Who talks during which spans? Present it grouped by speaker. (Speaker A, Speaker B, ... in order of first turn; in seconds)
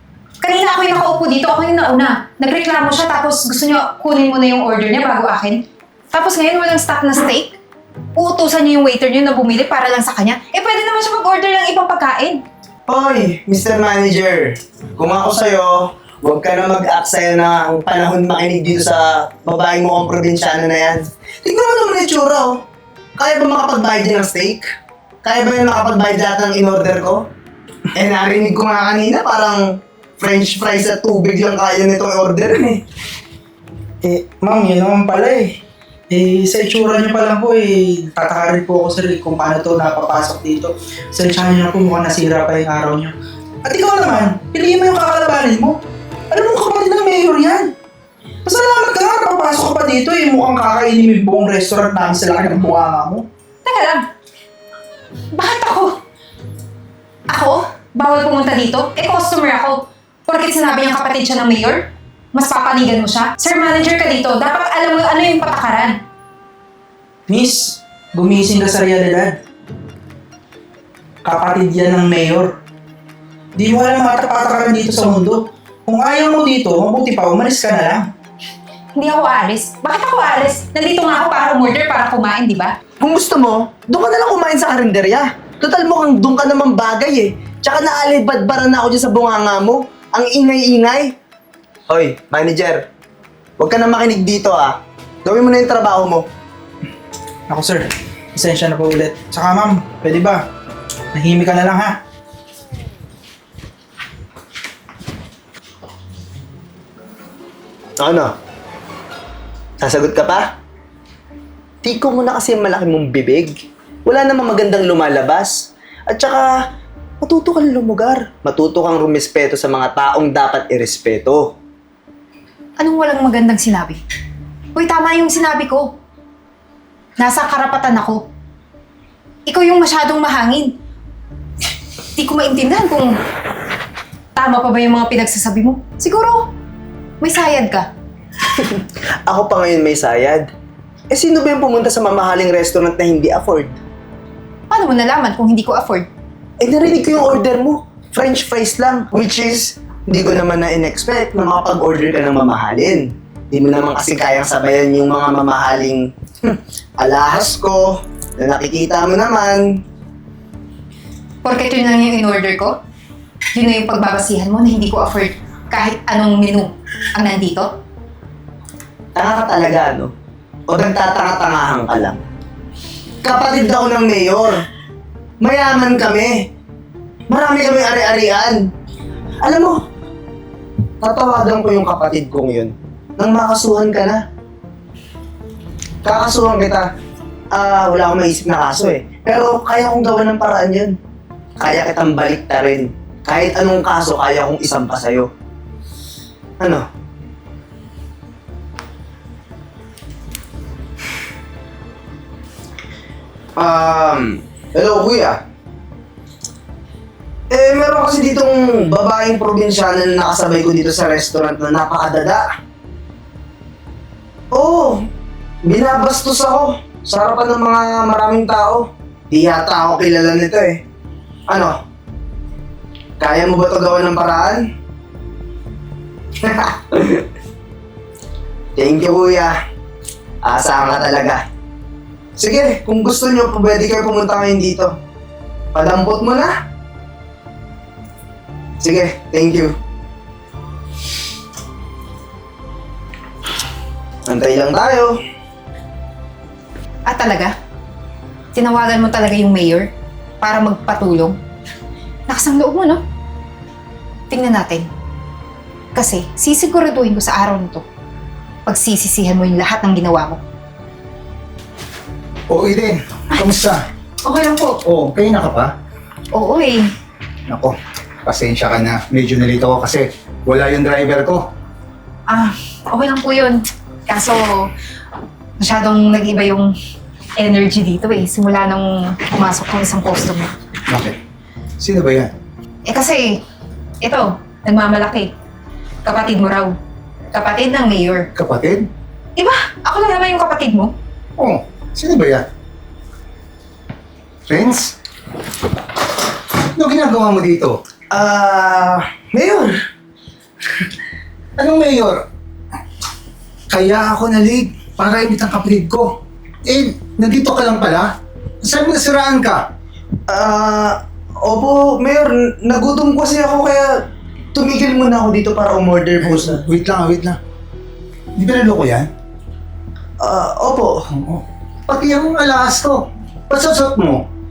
Speaker A: 0.4-7.5, 8.2-12.4, 53.6-54.0, 55.3-56.0, 57.3-66.0, 78.9-82.8, 122.8-124.0, 124.7-125.9, 127.2-128.2, 129.4-130.7, 132.2-133.1, 134.3-136.5, 137.2-137.9, 144.7-146.1, 161.4-162.8, 163.5-167.7, 247.1-247.5, 248.5-249.9, 250.4-251.4, 252.3-253.0, 254.3-254.9, 255.9-257.8, 258.6-260.4, 264.2-264.8, 266.3-266.9, 272.3-274.7, 275.6-276.7, 277.4-280.5, 282.9-283.4, 284.0-285.3, 286.0-286.7, 287.3-288.3, 289.4-290.9
Speaker B: 12.9-22.6, 23.2-24.7, 25.2-27.2, 27.9-32.8, 83.0-91.1, 91.9-92.8, 93.6-96.3, 108.0-108.3, 109.8-110.5, 111.8-113.5, 114.0-116.5, 117.2-121.5, 138.5-140.5, 141.1-143.7, 146.6-159.8, 169.2-170.1, 170.7-172.2, 173.2-174.6, 175.4-176.5, 177.3-178.7, 179.4-179.8, 181.0-184.2, 186.0-186.9, 187.5-191.0, 191.6-195.3, 196.6-196.8, 203.6-205.4, 207.5-212.4, 214.5-215.0, 215.6-220.8, 221.5-221.8, 223.2-224.6, 226.4-227.2, 228.8-229.5, 230.4-231.4, 232.4-234.9, 235.7-236.5, 238.8-239.8, 244.3-245.2, 298.1-299.7, 310.3-314.0, 314.5-316.6, 320.2-321.0
Speaker C: 34.0-35.6, 36.1-45.8, 46.3-47.7, 48.4-53.2, 67.3-69.4, 71.2-72.6, 73.5-78.1, 97.5-100.5, 101.1-102.0
Speaker D: 262.5-263.8, 264.8-265.7, 267.5-267.7, 268.2-271.5, 280.9-281.1, 281.8-282.3, 288.4-288.9, 291.4-292.4, 294.5-294.9, 296.8-297.8, 301.6-302.2, 303.7-308.1, 308.6-309.6, 316.2-317.4, 318.4-319.1, 321.2-324.2